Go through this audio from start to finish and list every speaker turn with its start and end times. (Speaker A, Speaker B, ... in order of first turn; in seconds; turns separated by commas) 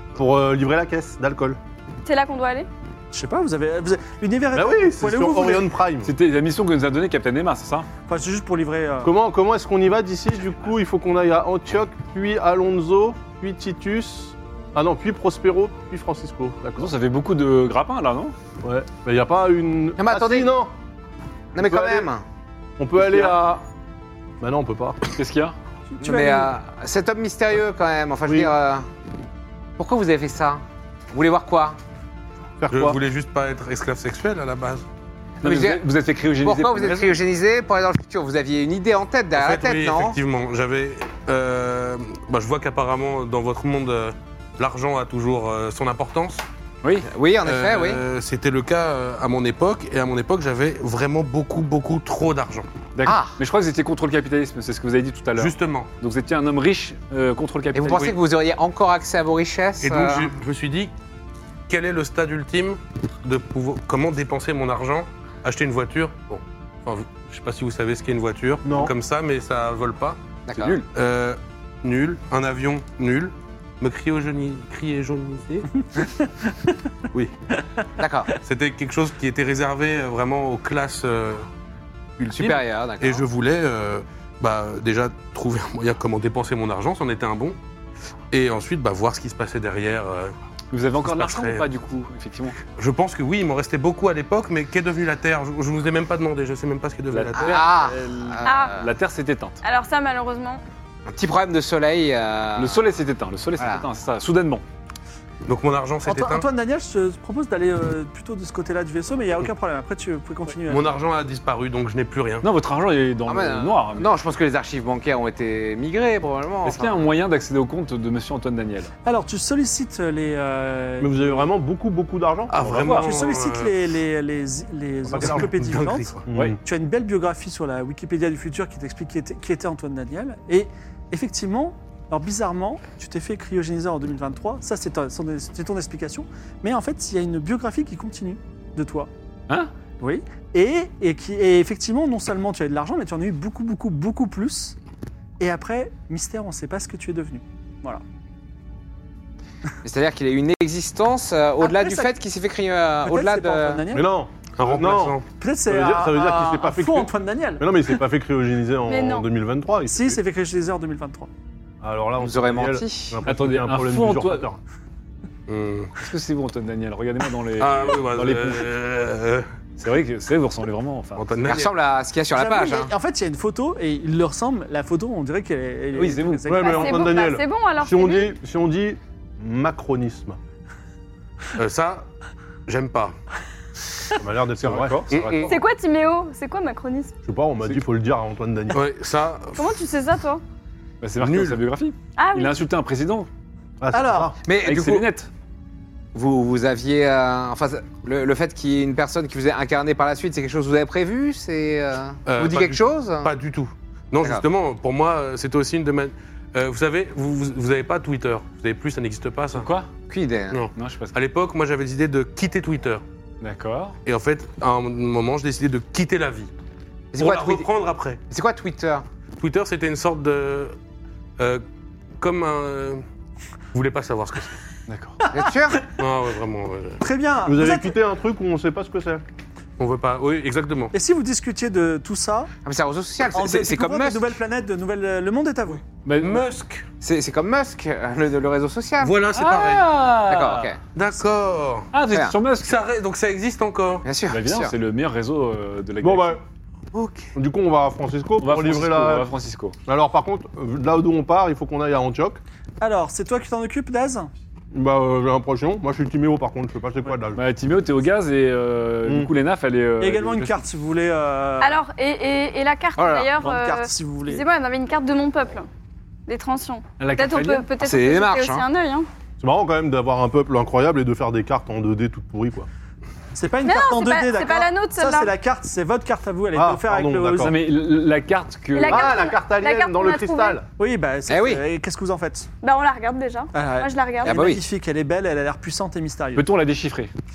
Speaker A: 0.2-1.6, Speaker B: 2.0-2.7, Speaker C: 3.1-5.7, Speaker A: 4.5-6.1, Speaker D: 6.0-7.9, Speaker C: 8.1-9.1, Speaker A: 9.0-16.9, Speaker D: 16.8-18.3, Speaker A: 18.6-20.7, Speaker E: 20.0-20.5, Speaker E: 21.6-22.2, Speaker A: 21.6-22.1, Speaker A: 22.8-23.6, Speaker D: 23.0-23.3, Speaker A: 24.4-25.0, Speaker D: 25.1-25.6, Speaker C: 25.9-26.5, Speaker E: 26.0-28.9, Speaker A: 28.3-28.5, Speaker E: 29.8-31.8, Speaker A: 32.6-33.0, Speaker F: 32.7-34.8, Speaker D: 35.4-37.2, Speaker E: 35.4-35.9, Speaker E: 36.4-40.2, Speaker F: 39.3-46.4, Speaker E: 47.0-48.0, Speaker F: 47.4-52.7, Speaker D: 53.0-58.1, Speaker E: 53.0-53.4, Speaker F: 55.4-55.9, Speaker E: 57.7-60.3, Speaker F: 57.9-58.2, Speaker F: 59.8-60.9, Speaker F: 61.7-70.2, Speaker E: 70.5-70.8, Speaker D: 70.6-70.8, Speaker F: 70.9-75.7, Speaker E: 78.0-78.3, Speaker F: 78.4-81.5, Speaker F: 82.2-87.6, Speaker E: 82.3-83.3, Speaker F: 88.3-90.3, Speaker D: 90.7-92.6, Speaker F: 91.0-91.7, Speaker F: 92.7-97.6, Speaker D: 97.1-99.6, Speaker E: 97.4-98.8, Speaker B: 98.5-98.8, Speaker B: 99.6-100.6, Speaker E: 101.0-102.9, Speaker D: 102.5-104.6, Speaker E: 103.6-103.9, Speaker F: 105.5-106.5, Speaker C: 106.0-111.0, Speaker F: 110.7-112.5, Speaker D: 112.4-114.1, Speaker E: 113.3-117.1, Speaker D: 116.6-118.9, Speaker C: 119.0-121.5, Speaker A: 121.0-123.0, Speaker F: 122.5-123.7, Speaker D: 122.6-123.2, Speaker C: 123.0-139.1, Speaker A: 125.1-125.5, Speaker F: 125.4-126.2, Speaker A: 126.3-126.6, Speaker D: 126.3-126.5, Speaker C: 140.0-144.8, Speaker C: 145.4-148.0, Speaker E: 149.8-153.8, Speaker C: 151.6-152.1, Speaker C: 153.1-154.1, Speaker A: 153.9-160.2, Speaker F: 154.6-155.2, Speaker C: 155.3-157.7, Speaker B: 158.9-159.3, Speaker C: 159.9-161.3, Speaker A: 161.8-164.6, Speaker E: 162.2-163.2, Speaker D: 163.3-164.5, Speaker F: 165.5-165.9, Speaker D: 166.0-168.7, Speaker F: 167.6-169.5, Speaker D: 169.8-171.3, Speaker F: 171.2-171.7, Speaker E: 171.4-172.9, Speaker C: 172.3-177.1, Speaker D: 175.9-176.7, Speaker A: 176.4-180.4, Speaker B: 176.7-178.4, Speaker F: 181.6-182.1, Speaker F: 182.7-183.2, Speaker A: 184.2-185.1, Speaker D: 184.6-185.6, Speaker F: 185.1-185.4, Speaker E: 185.1-185.5, Speaker B: 185.4-187.2, Speaker A: 187.2-188.8, Speaker F: 188.7-189.8, Speaker B: 189.6-190.4, Speaker D: 191.0-193.3, Speaker F: 191.2-191.6, Speaker B: 192.2-192.6, Speaker A: 193.8-194.4, Speaker C: 193.9-194.3, Speaker E: 194.4-195.1, Speaker D: 194.5-195.3, Speaker E: 196.1-203.3, Speaker F: 202.3-209.7, Speaker D: 209.5-209.9, Speaker E: 210.1-210.6, Speaker F: 210.5-213.0, Speaker D: 210.7-211.1, Speaker D: 213.4-214.0, Speaker F: 214.1-216.5, Speaker E: 217.1-217.7, Speaker F: 217.2-218.2, Speaker E: 218.3-219.1, Speaker F: 219.4-220.7, Speaker F: 221.4-221.6, Speaker F: 222.2-223.0, Speaker F: 223.7-224.6, Speaker D: 224.9-225.2, Speaker E: 225.3-225.9, Speaker F: 225.9-227.0, Speaker C: 227.0-227.9, Speaker A: 227.4-229.2, Speaker F: 229.8-230.9, Speaker C: 230.9-232.5, Speaker E: 232.6-234.3, Speaker C: 233.3-235.8, Speaker D: 236.1-236.5, Speaker F: 236.2-236.8, Speaker E: 237.0-239.2, Speaker F: 239.0-239.9, Speaker D: 239.3-240.7, Speaker E: 240.3-240.8, Speaker F: 240.9-241.9, Speaker D: 241.9-242.7, Speaker F: 242.6-244.1, Speaker E: 244.1-244.7, Speaker D: 244.3-246.4, Speaker A: 246.0-246.4, Speaker E: 246.9-247.3, Speaker A: 247.4-249.3, Speaker D: 248.4-249.7, Speaker A: 249.9-252.4, Speaker C: 252.8-254.3, Speaker A: 254.7-257.4, Speaker D: 257.3-260.6, Speaker A: 259.0-259.3, Speaker C: 260.0-261.8, Speaker B: 261.6-265.7, Speaker E: 263.0-263.3, Speaker C: 263.4-264.4, Speaker B: 266.3-269.1, Speaker D: 267.0-267.7, Speaker E: 267.8-268.7, Speaker A: 269.4-272.7, Speaker C: 273.3-277.5, Speaker B: 273.6-275.3, Speaker A: 276.5-277.6, Speaker D: 277.4-279.1, Speaker B: 278.7-280.6, Speaker A: 278.8-280.6, Speaker C: 280.8-282.5, Speaker E: 281.3-281.6, Speaker B: 282.6-284.5, Speaker C: 283.5-286.5, Speaker E: 284.2-284.6, Speaker D: 286.4-287.1